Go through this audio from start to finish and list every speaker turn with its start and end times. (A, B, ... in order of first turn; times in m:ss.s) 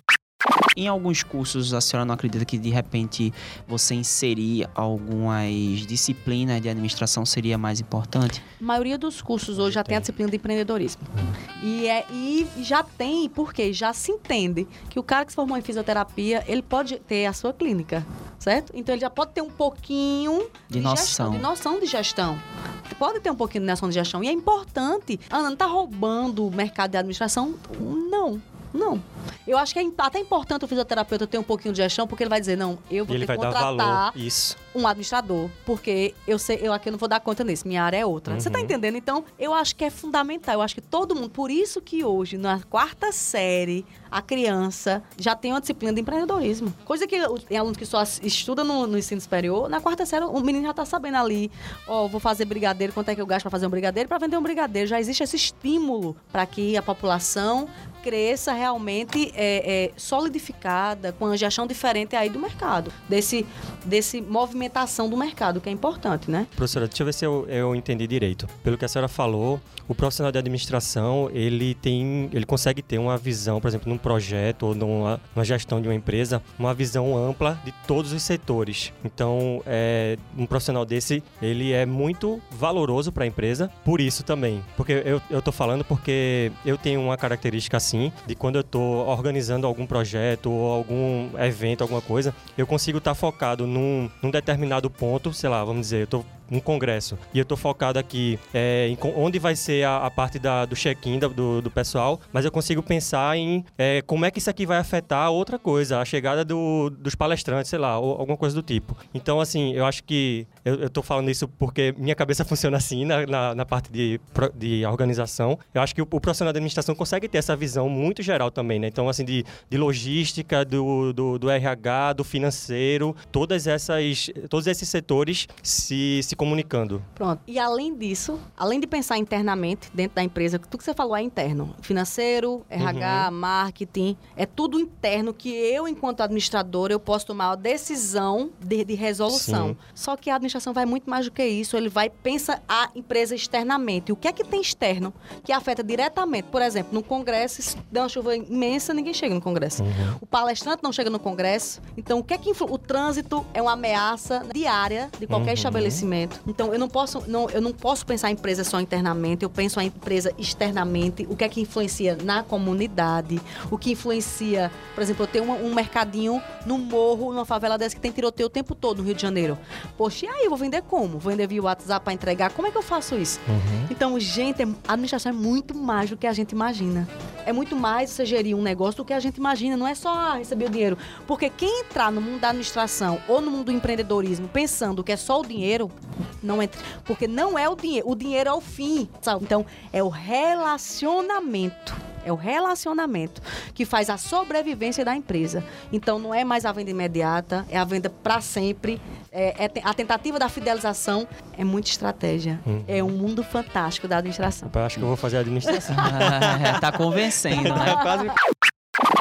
0:00.7-0:08.4 A
0:08.6-0:34.1 B
0:09.6-0:10.0 C
0:20.7-0:21.5 A
0:33.1-0:34.6 C
0:34.7-1:06.5 B
0:38.3-0:38.8 C
1:06.6-2:07.0 C
2:07.2-3:24.7 B
2:12.8-2:13.3 C
2:19.3-2:19.8 C
2:29.8-2:30.2 C
2:35.3-2:36.0 C
2:53.5-2:53.9 C
3:22.6-3:23.1 C
3:24.6-3:28.3 C
3:25.9-3:28.3 A